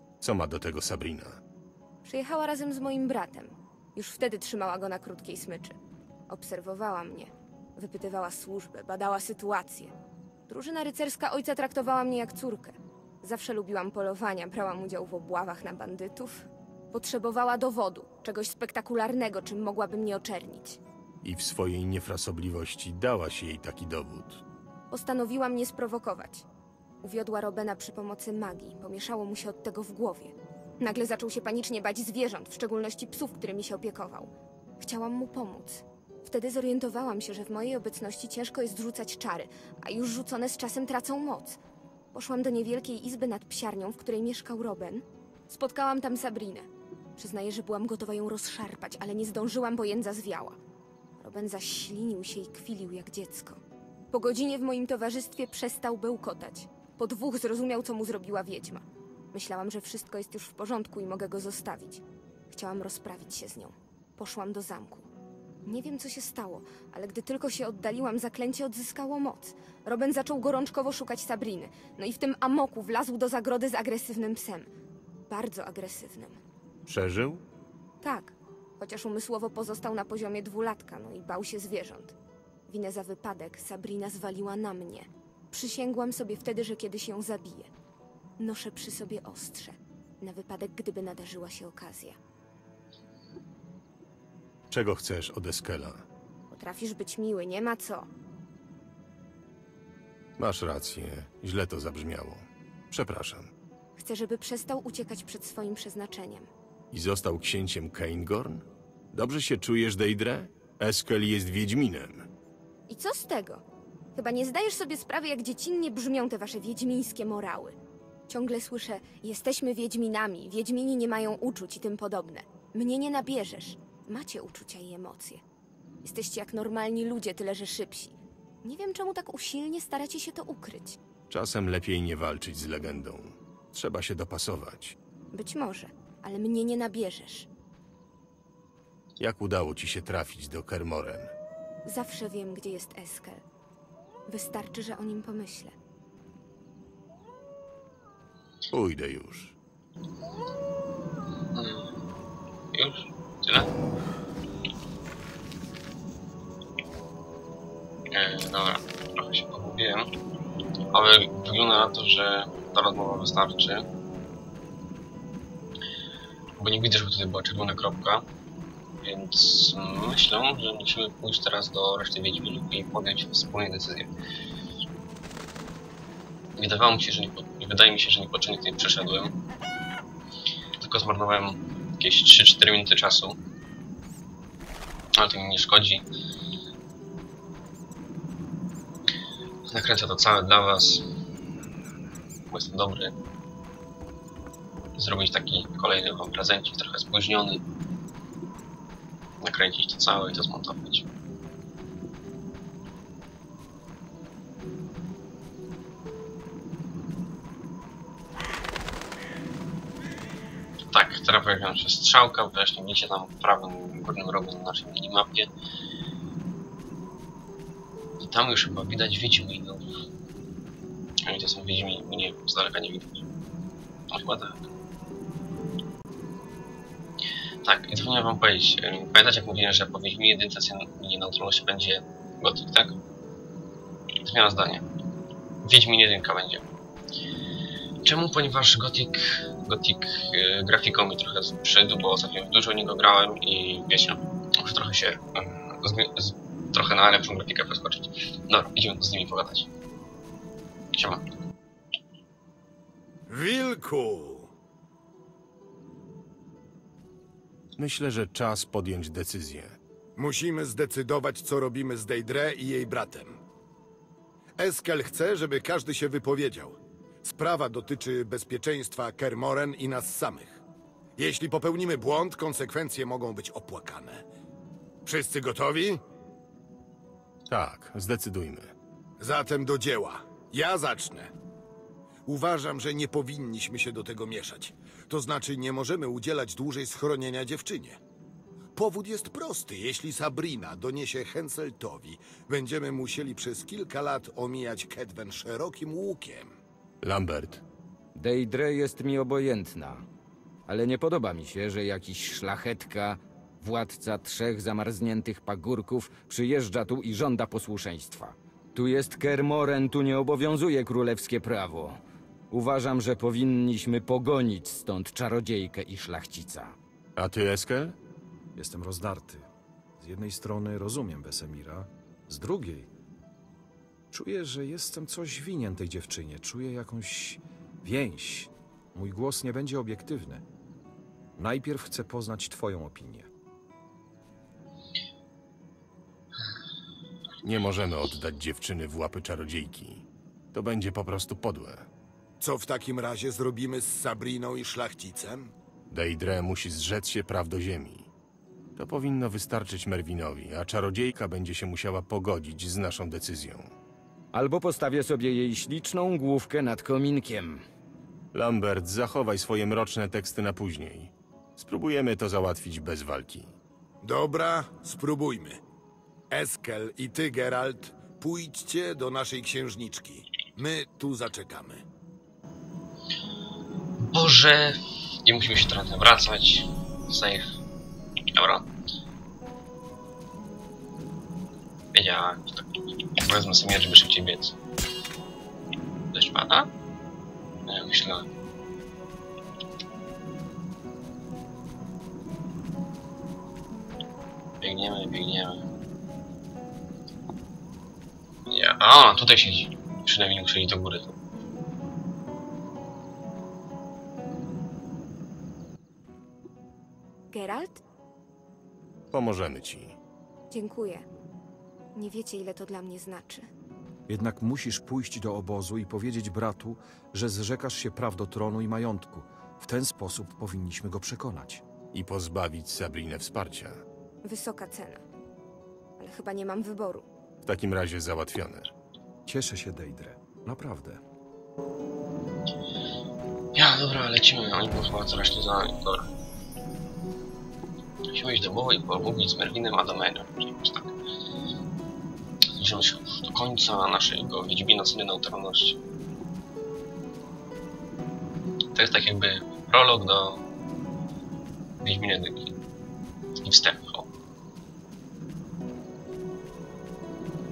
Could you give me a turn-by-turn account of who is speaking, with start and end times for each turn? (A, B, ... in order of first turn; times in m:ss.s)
0:00.2-0:01.4 A
0:02.0-0:05.8 B
0:06.3-0:09.9 B
0:10.5-0:20.8 B
0:21.2-0:24.4 A
0:24.9-0:26.4 B
0:27.0-0:41.6 B
0:42.1-0:50.6 B
0:51.2-0:53.6 B
0:54.1-1:05.1 B
1:05.6-1:14.7 B
1:15.3-1:16.4 B
1:16.9-1:17.4 A
1:18.0-1:22.1 B
1:22.7-1:27.7 B
1:28.4-1:32.2 B
1:34.7-1:36.0 A
1:36.5-1:38.1 B
1:40.4-1:43.5 A
1:44.0-1:46.5 B
1:46.9-1:52.3 A
1:52.9-1:53.6 B
1:54.1-1:57.7 B
1:58.3-2:05.4 B
2:06.0-2:11.0 B
2:11.3-2:15.0 A
2:15.3-2:17.5 B
2:19.2-2:21.3 A
2:21.8-2:23.4 B
2:24.3-2:25.7 B
2:28.7-2:29.6 A
2:31.5-2:31.9 C
2:32.7-2:33.7 C
2:38.1-2:40.1 C
2:40.9-2:43.8 C
2:46.6-2:48.2 C
2:49.0-2:54.1 C
2:56.6-2:59.3 C
3:00.8-3:03.4 C
3:05.2-3:06.0 C
3:09.7-3:11.0 C
3:12.5-3:13.1 C
3:15.0-3:17.6 C
3:19.4-3:21.0 C
3:30.9-3:35.5 C
3:38.2-3:39.9 C
3:41.2-3:43.2 C
3:44.1-3:44.6 C
3:47.6-3:53.0 C
3:54.2-3:54.8 C
3:55.6-3:56.6 C
3:58.0-4:09.7 C
4:10.9-4:11.2 C
4:13.3-4:14.5 D
4:17.8-4:19.8 A
4:20.2-4:23.4 D
4:24.6-4:30.6 D
4:31.2-4:34.2 D
4:35.0-4:36.0 D
4:37.5-4:38.7 A
4:39.2-4:41.3 D
4:42.2-4:48.0 D
4:48.7-4:56.5 D
4:57.0-4:57.6 A
4:58.1-5:00.0 E
5:00.6-5:12.0 E
5:12.5-5:16.8 E
5:17.2-5:18.0 A
5:18.6-5:19.5 F
5:20.0-5:22.9 F
5:24.1-5:30.4 F
5:31.4-5:33.3 F
5:37.4-5:41.9 A
5:42.4-5:45.5 D
5:45.9-5:48.1 A
5:48.8-5:53.7 A
5:54.3-5:57.6 E
5:58.3-6:03.5 A
6:04.0-6:05.6 D
6:06.3-6:11.8 D
6:14.0-6:17.5 C
6:18.3-6:18.6 C
6:21.9-6:24.5 C
6:26.1-6:26.7 C
6:27.7-6:28.3 C
6:34.6-6:35.6 C
6:38.5-6:41.1 C
6:47.3-6:47.8 B
6:49.1-6:50.0 A
6:50.5-6:51.0 B
6:51.9-6:53.5 B
6:54.1-7:01.6 F
7:01.9-7:03.8 A
7:04.2-7:05.0 B
7:06.0-7:07.0 B
7:07.4-7:08.7 A
7:09.2-7:11.0 F
7:13.5-7:16.1 C
7:18.1-7:20.9 C
7:22.5-7:25.8 C
7:28.7-7:30.4 C
7:31.8-7:32.5 C
7:33.4-7:34.1 C